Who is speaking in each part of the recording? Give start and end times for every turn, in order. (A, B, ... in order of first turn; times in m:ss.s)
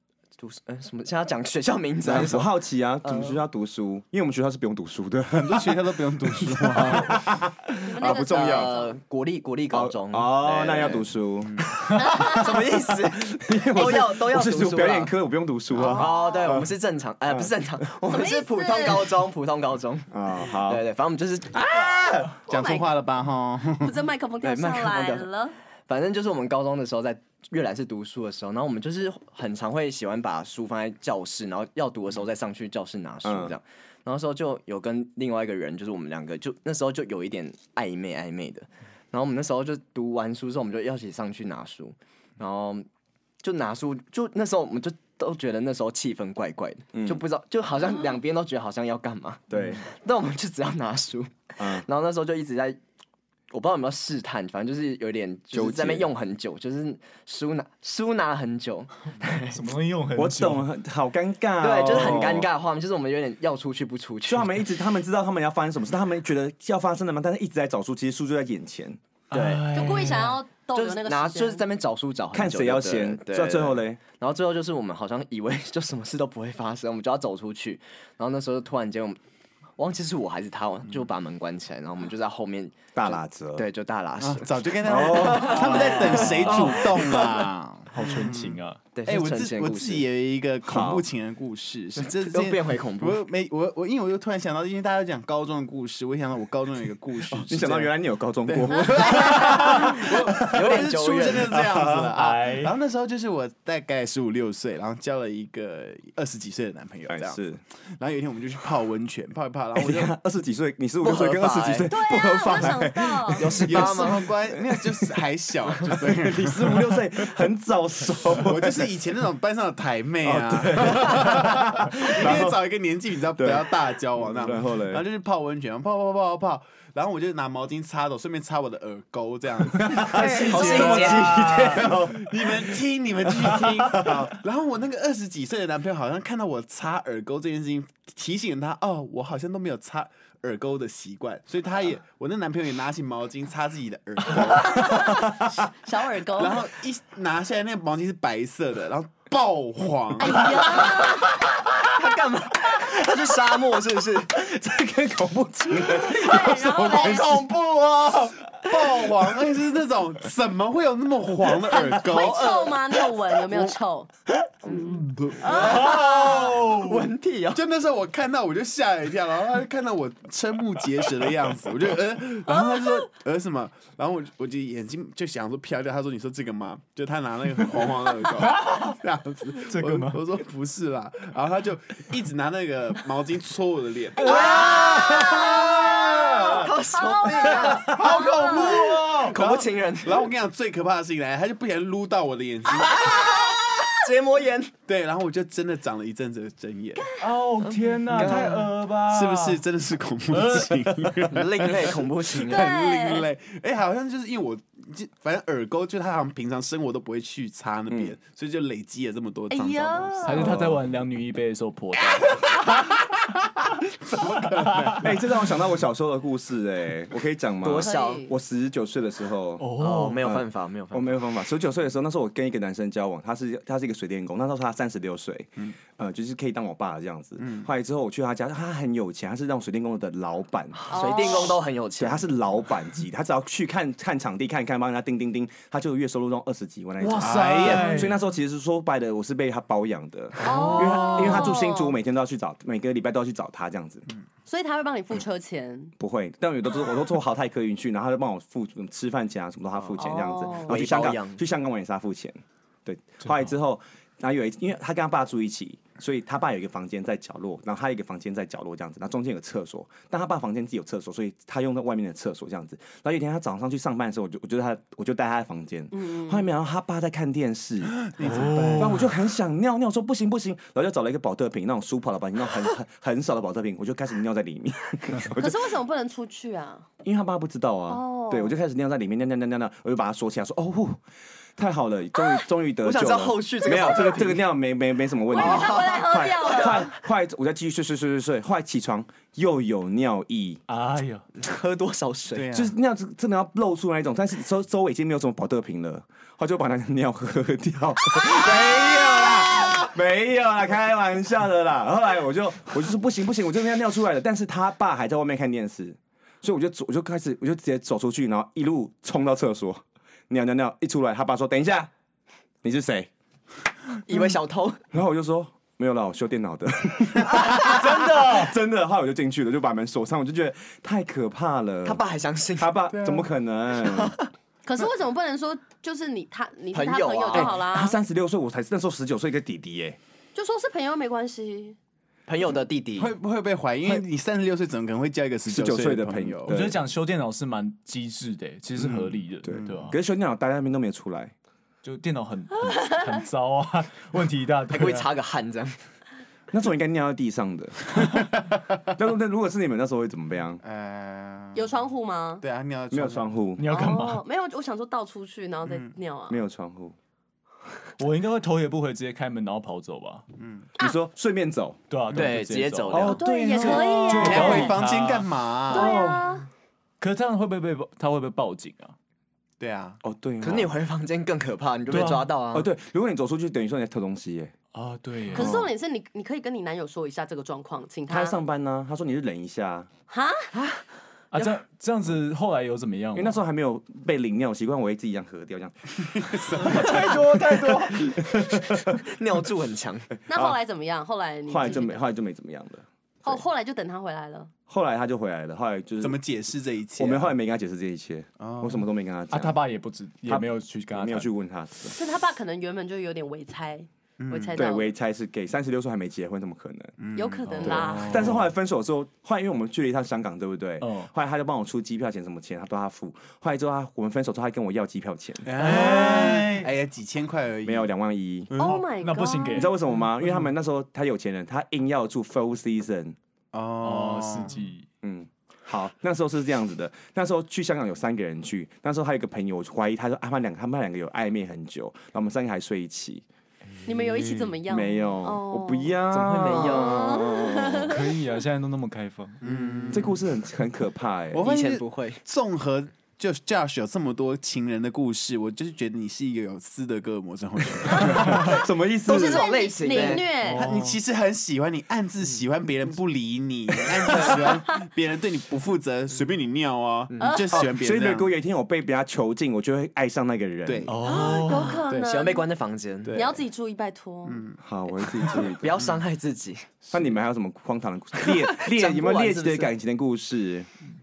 0:00.4-0:03.4 A
0:02.0-0:05.7 B
0:05.3-0:07.2 C
0:06.4-0:08.7 B
0:07.8-0:09.0 D
0:08.0-0:11.1 A
0:09.7-0:16.7 B
0:12.0-0:12.6 D
0:12.0-0:15.1 A
0:15.8-0:16.6 D
0:15.8-0:21.7 A
0:17.3-0:17.5 B
0:18.1-0:19.2 D
0:20.1-0:20.9 B
0:21.5-0:22.4 B
0:22.5-0:23.0 D
0:22.5-0:23.9 C
0:23.8-0:25.6 D
0:24.4-0:25.3 A
0:25.9-0:42.9 A
0:33.2-0:33.6 B
0:43.4-0:52.8 A
0:46.9-0:47.2 B
0:49.5-0:49.8 B
0:51.6-0:51.8 B
0:53.5-0:59.6 A
0:55.5-0:56.1 B
0:59.4-1:00.7 E
1:00.2-1:02.5 B
1:01.6-1:04.5 A
1:04.3-1:09.0 B
1:09.3-1:10.4 E
1:09.3-1:09.8 A
1:09.7-1:11.6 D
1:10.7-1:19.2 A
1:12.3-1:14.0 B
1:19.8-1:27.0 A
1:23.0-1:23.7 B
1:24.2-1:37.9 C
1:24.8-1:26.7 B
1:25.8-1:28.8 E
1:28.9-1:30.1 A
1:30.7-1:31.1 B
1:32.0-1:33.2 A
1:37.3-1:40.8 B
1:38.4-1:47.4 C
1:40.4-1:41.6 A
1:41.5-1:42.2 B
1:42.1-1:42.8 E
1:47.1-1:47.6 B
1:48.0-1:50.1 C
1:49.8-1:54.9 B
1:51.0-1:51.9 A
1:51.9-1:53.6 D
1:53.4-1:54.3 A
1:53.6-1:57.0 C
1:55.9-1:58.9 B
1:58.3-2:25.3 C
2:00.2-2:02.6 B
2:03.4-2:05.0 B
2:09.7-2:14.4 B
2:10.1-2:11.9 A
2:10.2-2:11.6 E
2:24.4-2:26.7 D
2:26.4-2:30.6 C
2:30.2-2:31.5 D
2:31.8-2:34.4 A
2:32.8-2:33.2 B
2:34.3-2:39.3 B
2:35.9-2:37.5 D
2:38.6-2:42.7 C
2:41.7-2:44.1 D
2:42.1-2:42.8 A
2:45.4-2:46.6 D
2:45.4-2:47.6 A
2:45.5-2:47.1 E
2:47.5-3:04.7 C
2:52.5-2:53.1 D
2:58.5-2:59.0 E
2:59.7-3:00.3 E
3:04.2-3:09.0 D
3:04.2-3:10.3 A
3:04.7-3:06.7 B
3:07.7-3:13.2 C
3:08.6-3:09.3 E
3:12.8-3:14.7 A
3:13.2-3:13.7 D
3:14.9-3:17.1 C
3:17.0-3:17.3 D
3:17.2-3:19.6 E
3:17.6-3:18.7 A
3:18.1-3:30.6 C
3:20.3-3:21.2 E
3:21.3-3:22.7 A
3:22.4-3:23.3 D
3:27.9-3:28.2 B
3:29.5-3:30.6 D
3:30.2-3:32.9 E
3:30.4-3:30.8 B
3:34.1-3:35.1 C
3:34.2-3:35.0 E
3:34.9-3:39.7 B
3:37.6-3:38.3 A
3:37.8-3:38.3 D
3:39.6-3:40.4 E
3:39.8-3:41.1 A
3:40.2-4:04.1 B
3:47.4-3:47.7 C
3:50.8-3:52.3 A
3:50.9-3:51.6 D
3:57.0-3:58.2 E
3:57.2-3:58.1 C
4:00.4-4:02.0 D
4:04.5-4:05.9 D
4:06.0-4:28.1 B
4:10.0-4:10.8 D
4:10.6-4:11.4 A
4:25.9-4:26.5 D
4:28.0-4:29.0 C
4:28.2-4:29.1 E
4:28.8-4:35.7 B
4:35.3-4:36.9 D
4:37.0-4:41.0 B
4:37.9-4:38.6 D
4:41.6-4:50.6 B
4:42.8-4:44.5 A
4:45.3-4:46.9 D
4:45.3-4:46.8 A
4:50.7-4:51.3 E
4:51.4-4:52.5 A
4:52.3-4:52.8 C
4:52.5-5:11.9 B
5:12.6-5:13.1 B
5:14.0-5:14.8 A
5:14.9-5:22.0 B
5:18.0-5:18.3 E
5:21.8-5:22.7 A
5:22.6-5:24.2 B
5:22.9-5:23.3 C
5:23.8-5:24.3 A
5:24.6-5:28.0 D
5:26.7-5:27.6 A
5:27.3-5:30.0 B
5:30.4-5:31.8 D
5:32.3-5:33.1 A
5:33.0-5:36.6 C
5:35.5-5:36.8 B
5:36.5-5:40.0 E
5:38.8-5:41.3 B
5:39.6-5:39.9 C
5:41.8-5:45.1 E
5:44.7-5:45.8 A
5:46.5-5:48.3 B
5:48.9-5:50.6 B
5:50.6-5:51.7 C
5:51.6-5:52.4 D
5:52.4-5:53.4 C
5:52.9-5:53.7 B
5:53.6-5:54.2 E
5:53.7-5:56.4 D
5:56.3-5:57.0 B
5:58.0-6:00.2 E
6:00.4-6:00.7 C
6:00.8-6:01.8 B
6:01.9-6:05.3 E
6:02.1-6:03.2 A
6:02.9-6:04.7 B
6:03.0-6:04.7 D
6:04.1-6:06.0 C
6:05.7-6:06.5 D
6:05.7-6:06.2 B
6:07.0-6:09.0 E
6:09.6-6:10.0 C
6:10.0-6:10.7 B
6:10.4-6:12.7 A
6:11.9-6:12.3 E
6:12.5-6:14.5 B
6:14.7-6:15.6 E
6:15.3-6:18.4 D
6:15.4-6:15.7 B
6:18.1-6:19.9 B
6:20.1-6:20.5 D
6:20.5-6:20.8 A
6:21.3-6:23.4 E
6:23.1-6:29.0 B
6:26.0-6:26.9 C
6:26.6-6:28.2 E
6:28.9-6:30.1 A
6:30.3-6:32.0 D
6:30.3-6:30.6 B
6:31.5-6:33.4 B
6:33.2-6:34.5 D
6:34.7-6:36.2 B
6:36.0-6:37.3 C
6:37.0-6:39.6 B
6:38.4-6:38.9 C
6:39.3-6:41.3 E
6:40.3-6:42.0 B
6:41.9-6:44.9 D
6:44.2-6:44.6 C
6:44.6-6:47.0 B
6:47.0-6:48.4 C
6:47.2-6:48.3 D
6:47.5-6:48.0 E
6:47.6-6:56.1 B
6:50.8-6:51.1 E
6:55.4-6:57.9 C
6:55.6-6:56.7 E
6:57.6-6:58.5 B
6:58.5-6:58.8 C
6:58.6-6:59.7 D
6:58.6-6:59.7 E
6:59.5-7:03.2 B
7:03.5-7:04.6 C
7:03.8-7:04.8 E
7:05.0-7:13.2 B
7:13.8-7:18.1 D
7:14.7-7:18.0 B
7:16.1-7:17.2 A
7:17.8-7:19.4 E
7:19.4-7:20.2 C
7:19.5-7:19.8 A
7:19.9-7:21.5 B
7:21.3-7:28.6 C
7:21.4-7:22.2 A
7:27.9-7:30.8 D
7:28.0-7:29.5 B
7:29.1-7:30.3 A
7:30.4-7:31.0 E
7:30.4-7:38.3 C
7:34.1-7:34.4 A
7:37.1-7:37.4 A
7:37.2-7:37.6 D
7:37.5-7:40.9 B
7:40.7-7:41.2 C
7:40.9-7:41.8 E
7:41.0-7:42.5 D
7:41.5-7:43.3 A
7:43.0-7:43.4 C
7:43.1-7:44.5 D
7:44.2-7:45.5 C
7:44.6-7:45.8 B
7:45.4-7:46.7 A
7:46.9-7:50.7 B
7:48.2-7:49.7 A